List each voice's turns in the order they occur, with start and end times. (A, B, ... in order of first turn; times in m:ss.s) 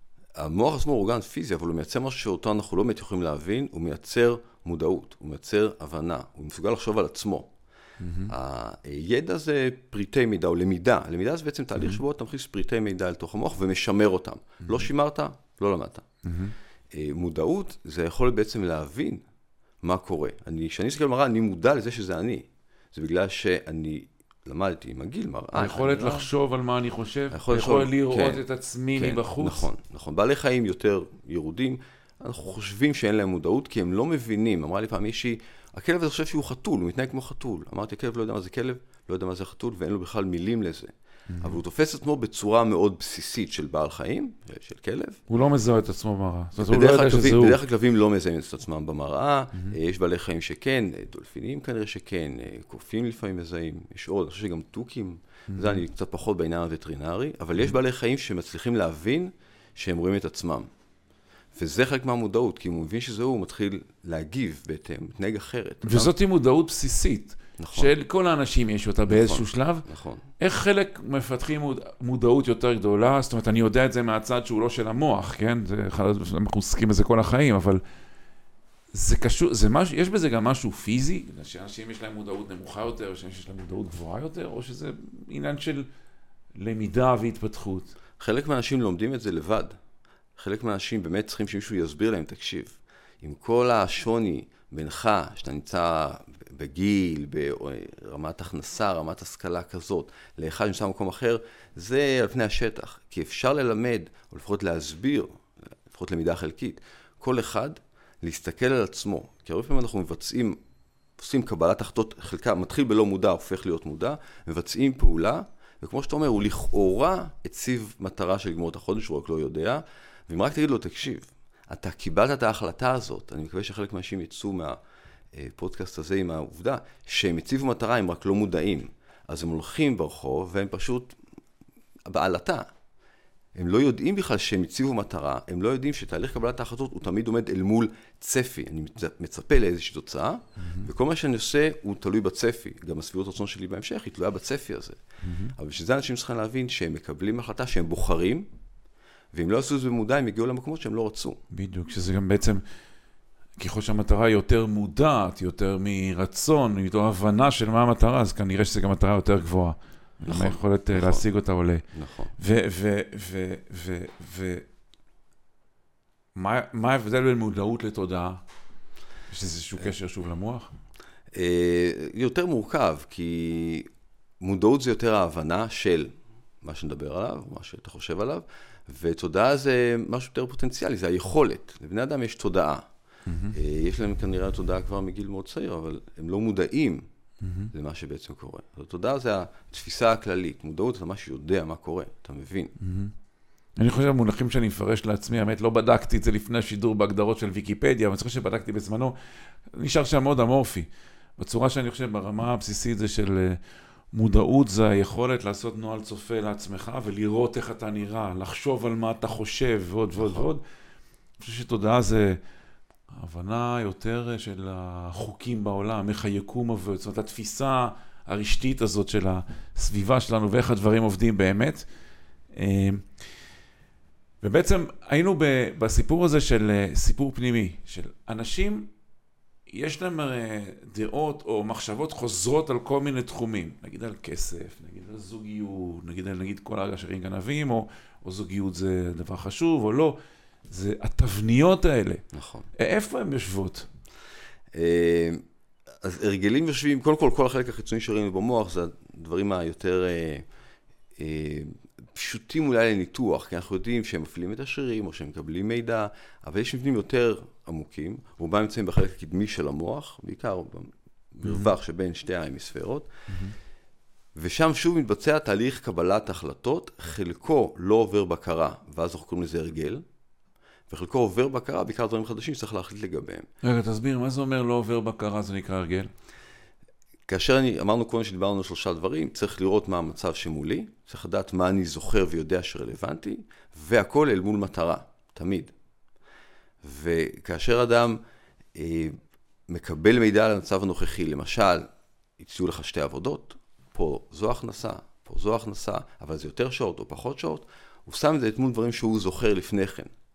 0:00.4-0:07.5 A
0:08.0-0:08.3 B
0:08.3-0:16.0 A
0:16.2-0:16.5 B
0:16.9-0:19.2 A
0:19.8-0:26.3 A
0:25.6-0:29.7 B
0:27.3-0:28.4 A
0:29.0-0:45.2 A
0:41.3-0:41.6 B
0:45.3-0:47.6 B
0:46.6-1:00.7 A
0:55.5-0:55.8 B
1:01.5-1:06.1 A
1:05.8-1:09.9 B
1:07.6-1:07.9 A
1:09.1-1:10.3 A
1:10.4-1:17.8 B
1:18.9-1:25.9 B
1:26.6-1:28.0 B
1:28.2-1:29.8 A
1:30.4-1:50.6 A
1:51.2-2:04.8 A
2:05.3-2:11.2 A
2:12.1-2:12.7 A
2:13.6-2:25.0 A
2:20.6-2:20.9 B
2:25.2-2:25.5 B
2:25.6-2:28.5 A
2:29.3-2:31.4 A
2:31.5-2:32.6 B
2:33.6-2:41.8 B
2:40.3-2:41.2 A
2:41.9-2:42.3 A
2:42.4-2:44.6 B
2:46.4-2:48.4 B
2:49.3-2:50.7 B
2:51.3-2:53.9 A
2:54.4-3:02.9 A
3:03.3-3:03.6 B
3:03.5-3:07.1 A
3:07.4-3:07.7 B
3:07.7-3:12.7 A
3:12.8-3:13.1 B
3:13.8-3:19.2 B
3:19.7-3:23.6 B
3:24.1-3:30.6 B
3:30.2-3:30.5 A
3:31.4-3:32.4 B
3:33.1-3:41.8 B
3:42.5-3:43.1 B
3:44.4-3:48.9 B
3:49.7-4:00.2 B
4:00.7-4:02.2 B
4:02.3-4:02.7 A
4:02.8-4:03.9 B
4:04.7-4:05.4 A
4:06.0-4:10.5 A
4:11.2-4:23.1 A
4:21.4-4:21.7 B
4:23.3-4:23.6 B
4:24.4-4:30.0 A
4:30.9-4:33.5 A
4:33.6-4:36.1 B
4:37.3-4:45.7 A
4:46.8-4:48.2 A
4:48.7-4:49.2 A
4:49.7-4:51.9 A
4:52.4-5:00.1 A